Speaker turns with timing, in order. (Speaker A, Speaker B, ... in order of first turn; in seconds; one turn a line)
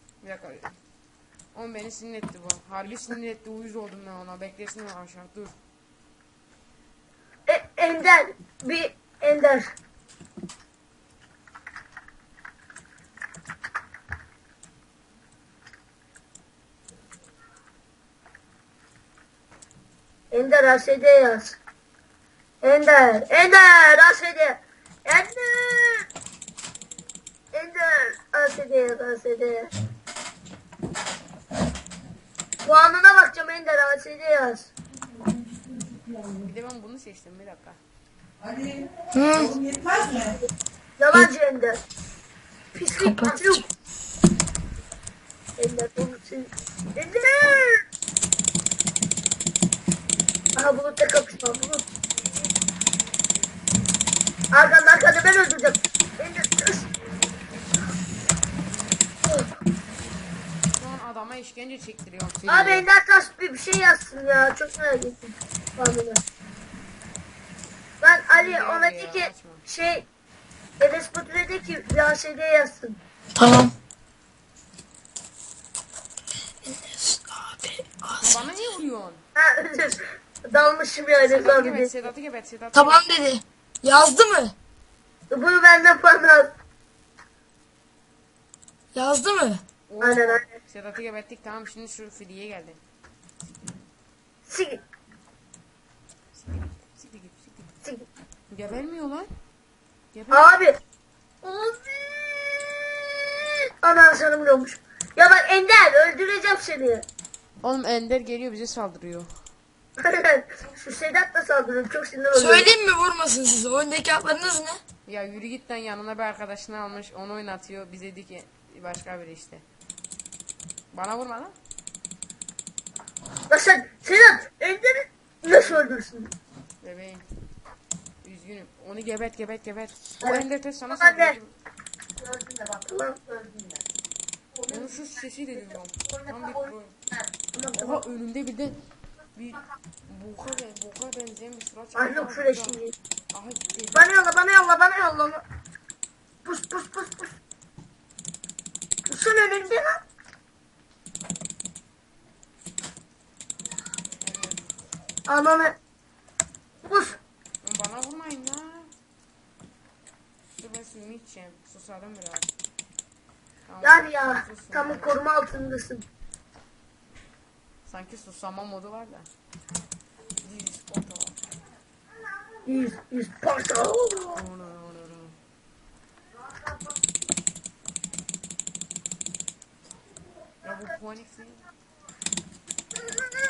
Speaker A: 0.2-0.7
Speaker A: 1.5-5.5
Speaker B: 7.5-9.7
Speaker B: 20.3-21.6
Speaker B: 22.6-26.0
Speaker B: 27.5-29.7
Speaker B: 32.6-34.7
Speaker A: 36.4-37.8
Speaker C: 39.1-39.6
Speaker B: 41.0-41.8
Speaker B: 42.7-43.6
Speaker C: 42.9-43.6
Speaker B: 45.6-47.8
Speaker B: 50.5-51.8
Speaker B: 54.5-56.9
Speaker A: 60.7-62.9
Speaker B: 62.5-66.2
Speaker B: 68.0-70.0
Speaker A: 68.4-69.6
Speaker B: 70.8-73.0
Speaker C: 73.3-73.7
Speaker C: 76.6-78.4
Speaker A: 78.2-79.2
Speaker B: 79.3-82.0
Speaker A: 81.2-83.0
Speaker C: 82.7-84.5
Speaker B: 85.3-86.5
Speaker C: 88.9-89.6
Speaker A: 89.9-92.8
Speaker B: 90.0-90.5
Speaker B: 94.5-94.8
Speaker A: 96.3-97.7
Speaker A: 98.5-99.3
Speaker A: 100.1-100.5
Speaker B: 100.3-100.8
Speaker B: 101.4-102.9
Speaker B: 103.8-107.0
Speaker A: 107.6-109.3
Speaker B: 110.0-112.7
Speaker C: 112.3-114.8
Speaker A: 115.0-119.6
Speaker A: 120.9-121.5
Speaker B: 123.5-126.3
Speaker A: 125.5-125.8
Speaker A: 126.8-127.2
Speaker A: 128.2-131.5
Speaker B: 130.2-131.3
Speaker B: 132.2-133.8
Speaker A: 134.7-137.0
Speaker B: 137.5-138.0
Speaker A: 137.7-138.8
Speaker A: 139.3-144.1
Speaker B: 141.9-142.9
Speaker B: 143.9-145.4
Speaker B: 146.4-147.3
Speaker B: 149.1-150.0
Speaker A: 154.2-154.7
Speaker B: 155.3-155.8
Speaker B: 156.8-157.1
Speaker A: 157.6-158.9
Speaker A: 160.5-162.5
Speaker A: 163.7-165.2
Speaker B: 163.8-166.0
Speaker A: 167.8-169.3
Speaker A: 170.4-171.4
Speaker B: 172.7-174.4
Speaker A: 174.3-175.4
Speaker A: 180.6-181.7